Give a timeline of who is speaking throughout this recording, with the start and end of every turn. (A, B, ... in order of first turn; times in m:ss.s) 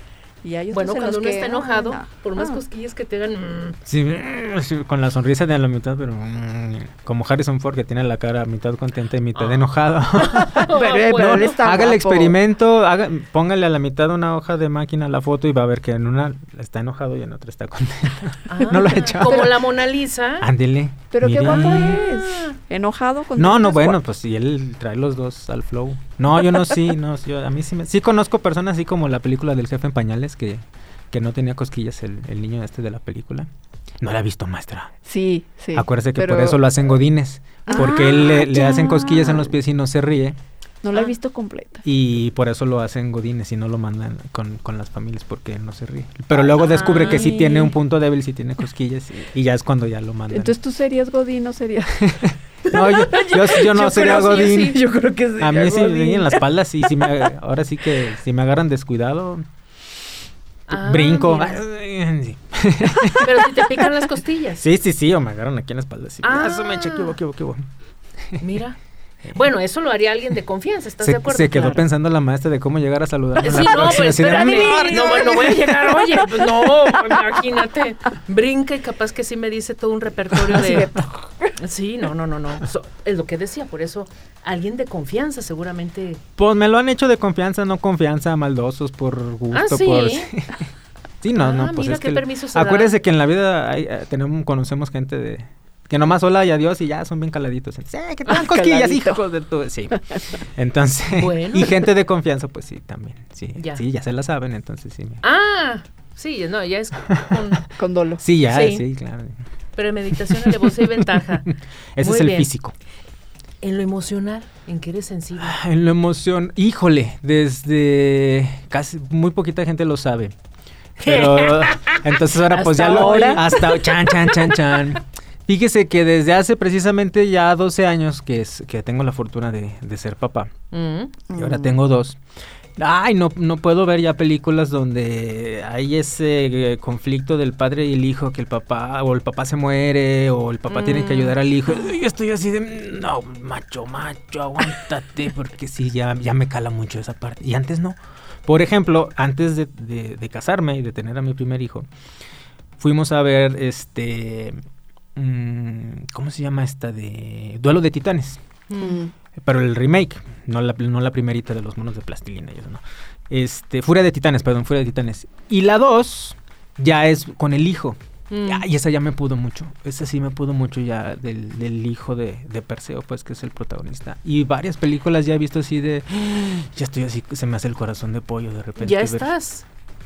0:00.4-0:02.6 A
0:00.7-0:03.8 B
0:03.8-0:19.7 C
0:09.3-0:11.6 B
0:10.5-0:12.4 A
0:18.5-0:20.4 B
0:20.4-0:22.0 C
0:21.1-0:24.0 A
0:21.4-0:22.6 B
0:23.4-0:33.5 C
0:34.0-0:34.9 C
0:35.0-0:36.6 A
0:35.7-0:40.4 C
0:37.7-0:39.5 A
0:40.8-0:41.8 A
0:41.8-0:50.5 C
0:46.4-0:47.5 B
0:46.7-0:47.8 A
0:50.3-0:57.3 A
0:52.0-0:54.8 C
0:53.9-0:54.8 B
0:55.4-0:59.4 C
1:00.7-1:01.6 B
1:00.7-1:03.3 C
1:03.2-1:04.6 B
1:04.6-1:07.6 C
1:06.2-1:07.2 B
1:08.4-1:08.8 B
1:09.3-1:11.8 B
1:11.0-1:15.7 C
1:13.4-1:21.0 B
1:14.0-1:17.4 A
1:20.5-1:21.6 A
1:21.6-1:26.2 B
1:26.4-1:30.7 C
1:29.5-1:30.3 B
1:31.2-1:45.2 C
1:31.4-1:32.9 B
1:38.2-1:39.2 A
1:40.1-1:40.4 A
1:41.1-1:41.8 B
1:43.6-1:43.8 B
1:45.2-1:47.6 B
1:47.8-1:48.2 A
1:48.2-1:49.4 C
1:48.5-1:48.8 B
1:49.8-1:51.5 B
1:50.3-1:52.7 C
1:52.0-1:52.5 B
1:53.6-1:55.6 B
1:55.4-2:00.3 C
2:01.0-2:10.5 C
2:01.0-2:04.6 B
2:02.8-2:03.4 A
2:10.7-2:11.2 B
2:11.3-2:11.7 A
2:11.3-2:12.2 C
2:12.8-2:31.9 C
2:20.7-2:21.4 B
2:32.8-2:34.6 C
2:35.2-2:38.4 C
2:38.7-2:39.0 B
2:38.8-2:39.1 A
2:39.4-2:59.3 C
2:48.3-2:48.6 B
2:58.8-2:59.6 B